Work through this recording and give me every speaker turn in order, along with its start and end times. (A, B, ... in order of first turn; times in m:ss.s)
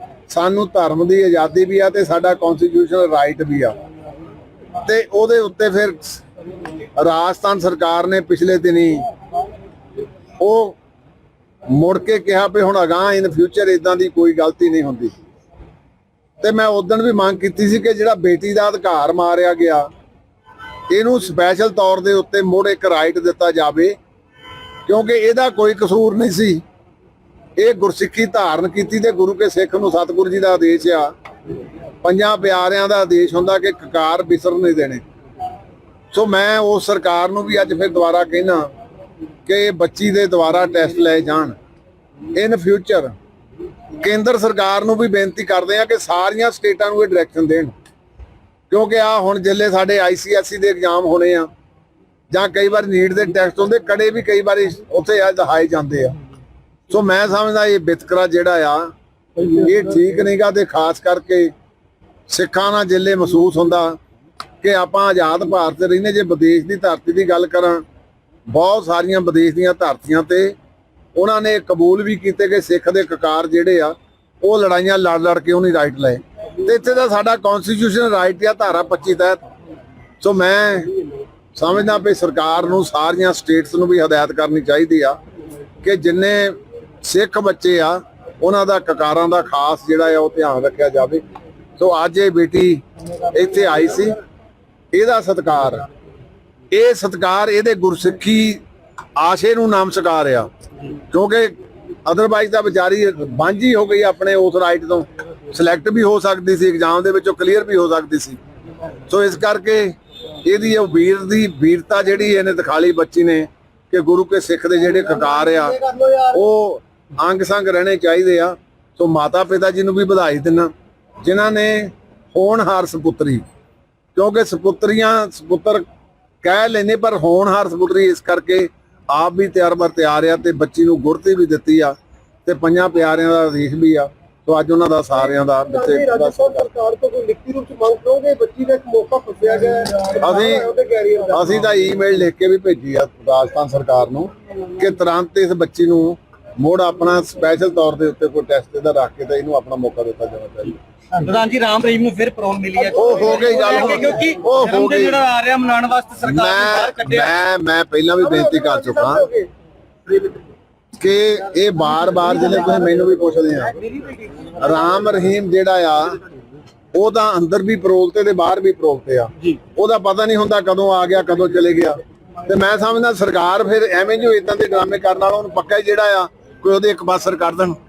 0:00.3-0:03.8 A
0:04.8-0:06.2 A
0:07.0-0:09.0 A
0:10.4-0:10.8 A
0:11.7-0:15.1 A
0:16.4-0:19.9 A
0:20.9-0:24.0 A
0:24.8-0:26.6 A
0:27.6-0:31.1 A
0:32.0-0:35.0 A
0:36.1-0:38.7 A
0:39.5-0:41.5 A
0:42.3-0:43.1 A
0:44.0-0:47.7 A
0:48.7-0:51.5 A
0:52.3-0:56.2 A
0:56.9-1:01.5 A
1:02.3-1:04.0 A
1:04.6-1:07.8 A
1:08.5-1:10.6 A
1:11.1-1:19.4 A
1:20.2-1:20.9 A
1:21.6-1:25.2 A
1:25.8-1:31.2 A
1:31.8-1:34.2 A
1:34.9-1:35.8 A
1:36.7-1:38.6 A
1:39.2-1:40.5 A
1:41.1-1:48.4 A
1:49.1-2:00.7 A
2:01.2-2:03.4 A
2:04.1-2:05.8 A
2:06.4-2:16.7 A
2:15.8-2:21.3 B
2:20.2-2:20.7 A
2:21.3-2:30.8 A
2:31.2-2:37.3 C
2:32.9-2:35.2 A
2:36.2-2:39.3 A
2:38.4-2:39.5 B
2:41.0-2:43.8 A
2:44.6-2:46.2 A
2:46.9-2:57.8 A